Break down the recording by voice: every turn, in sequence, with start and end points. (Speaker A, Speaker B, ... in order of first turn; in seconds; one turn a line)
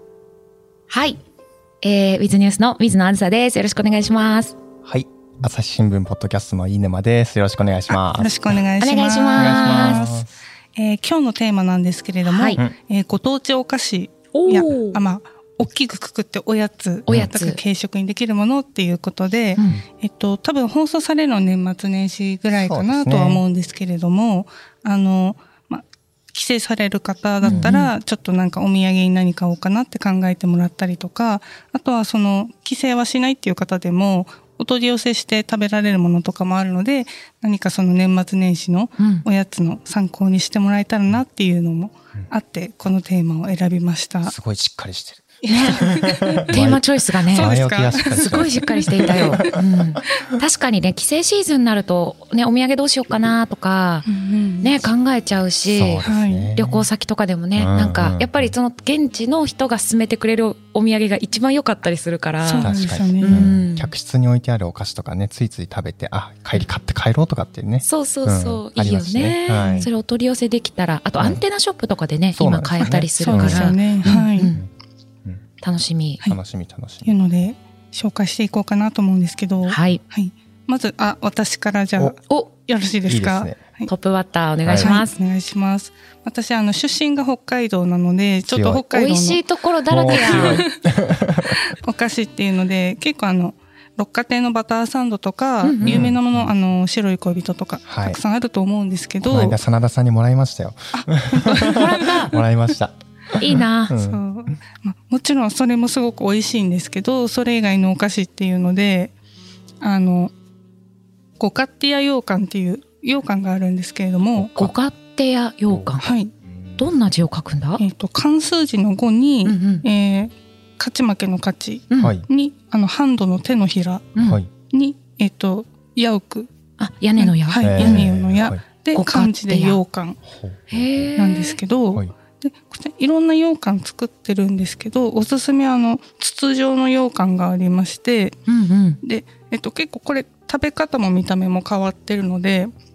Speaker A: 0.9-1.2
Speaker A: 1.8-4.6
Speaker B: 4.8-8.6
Speaker C: 8.1-44.3
Speaker A: 8.8-10.0
Speaker B: 9.3-10.3
Speaker A: 12.3-12.6
Speaker A: 14.3-15.0
Speaker A: 17.1-17.6
Speaker A: 19.6-19.8
Speaker B: 22.5-23.4
Speaker A: 27.4-27.9
Speaker B: 27.4-27.8
Speaker A: 39.0-39.3
Speaker B: 44.3-50.0
Speaker C: 45.4-46.7
Speaker A: 46.5-54.1
Speaker C: 47.2-49.6
Speaker C: 54.1-54.7
Speaker A: 54.6-63.9
Speaker B: 55.7-56.9
Speaker C: 56.0-56.5
Speaker B: 57.6-58.5
Speaker C: 62.4-63.5
Speaker B: 62.6-69.9
Speaker A: 67.8-74.6
Speaker C: 69.6-69.9
Speaker B: 72.3-74.7
Speaker C: 72.8-74.5
Speaker A: 75.6-76.2
Speaker B: 76.2-77.1
Speaker C: 77.0-83.9
Speaker A: 79.7-80.0
Speaker B: 83.1-83.6
Speaker A: 83.9-85.1
Speaker B: 84.6-85.0
Speaker C: 84.8-89.4
Speaker B: 88.5-88.8
Speaker A: 88.9-90.6
Speaker B: 89.9-91.6
Speaker C: 90.0-90.8
Speaker C: 91.5-99.6
Speaker A: 95.6-96.1
Speaker B: 95.8-96.5
Speaker B: 97.8-98.2
Speaker B: 99.2-104.5
Speaker C: 100.9-102.2
Speaker A: 101.6-102.4
Speaker A: 103.3-104.0
Speaker C: 104.0-109.1
Speaker C: 109.8-110.3
Speaker C: 111.4-114.6
Speaker B: 114.4-114.7
Speaker A: 114.5-116.1
Speaker B: 115.7-116.9
Speaker C: 116.0-116.3
Speaker A: 116.8-117.8
Speaker C: 117.8-124.1
Speaker A: 119.4-119.8
Speaker A: 121.9-122.2
Speaker B: 122.0-122.2
Speaker B: 124.2-124.5
Speaker C: 124.7-126.5
Speaker A: 126.8-128.1
Speaker C: 127.2-130.2
Speaker B: 127.6-128.6
Speaker A: 128.9-129.8
Speaker B: 130.2-131.1
Speaker A: 130.7-131.6
Speaker C: 131.2-138.4
Speaker A: 138.5-139.0
Speaker C: 139.0-142.7